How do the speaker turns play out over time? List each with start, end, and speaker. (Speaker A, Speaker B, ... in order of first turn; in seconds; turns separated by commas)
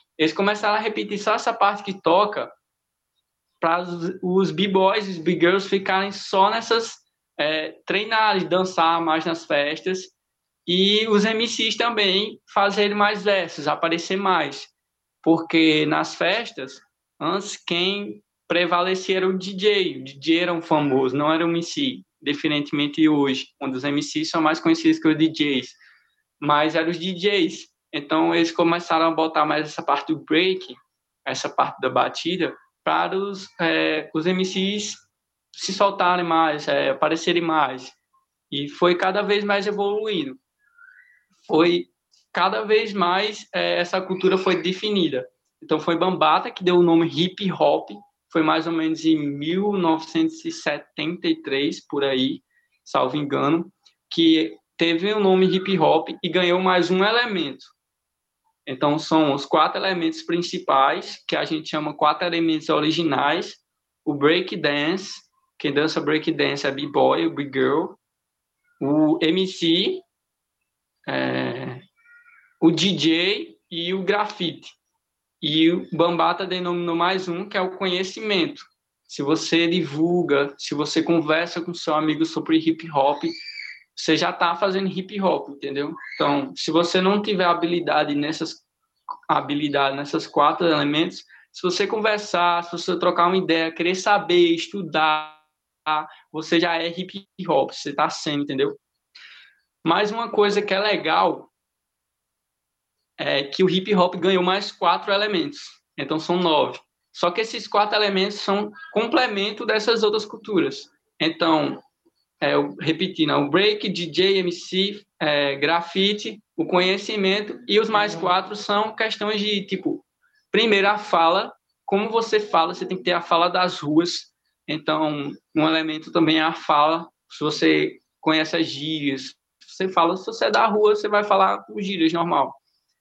Speaker A: 0.2-2.5, Speaker A: 3.6-10.1, Speaker A: 10.7-14.7, Speaker A: 15.2-25.8, Speaker A: 26.4-35.0, Speaker A: 35.5-38.0, Speaker A: 38.5-40.4, Speaker A: 41.5-57.7, Speaker A: 58.6-68.0, Speaker A: 68.8-70.0, Speaker A: 71.1-71.8, Speaker A: 72.6-74.7, Speaker A: 75.4-83.3, Speaker A: 84.0-88.6, Speaker A: 89.3-98.8, Speaker A: 99.8-101.5, Speaker A: 103.2-111.8, Speaker A: 112.4-132.6